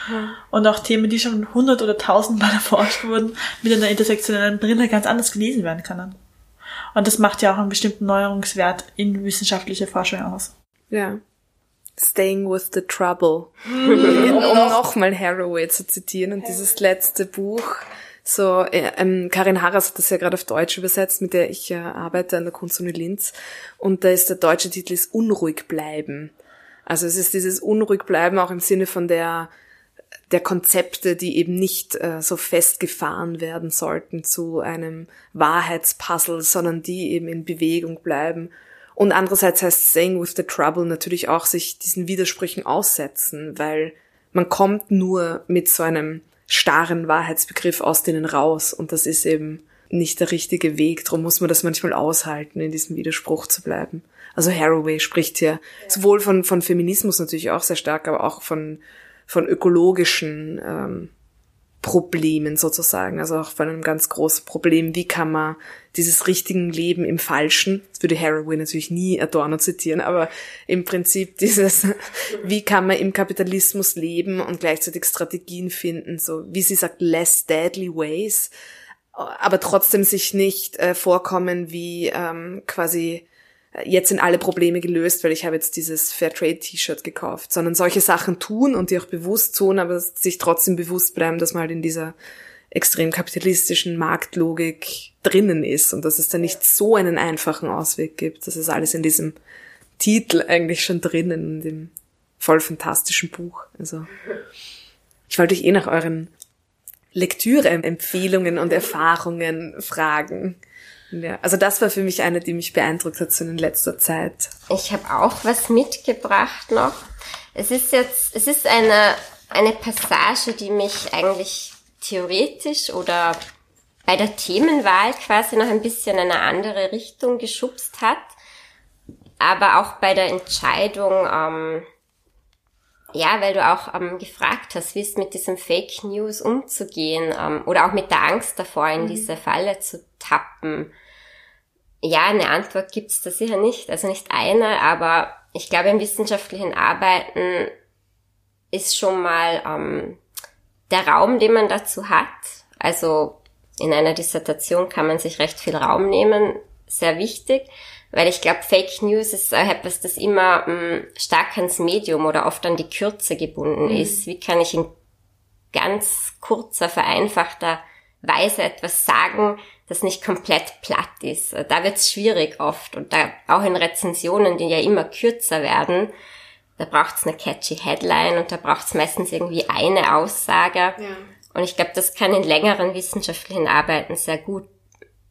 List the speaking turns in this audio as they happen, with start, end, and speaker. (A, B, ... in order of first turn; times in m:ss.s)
0:00.5-0:06.1 A
0:06.9-0:10.5 A
0:10.9-0:11.2 B
0:12.0-0:26.3 B
0:13.7-0:14.4 A
0:26.9-0:29.5 B
0:30.3-1:01.1 B
1:01.8-1:18.5 B
1:19.1-1:23.2 B
1:23.8-1:32.1 B
1:32.7-1:39.3 B
1:40.0-1:44.1 B
1:45.3-1:46.3 B
1:47.1-1:50.6 B
1:51.1-1:54.5 B
1:54.7-1:57.0 C
1:57.5-2:03.4 C
2:04.0-2:08.3 C
2:09.4-2:11.9 C
2:13.1-2:20.9 C
2:19.0-2:19.3 B
2:22.0-2:27.7 C
2:28.7-2:30.2 C
2:30.9-2:44.9 C
2:43.8-2:44.2 B
2:45.7-2:56.1 C
2:56.8-3:01.0 C
3:01.0-3:01.3 B
3:01.5-3:04.7 C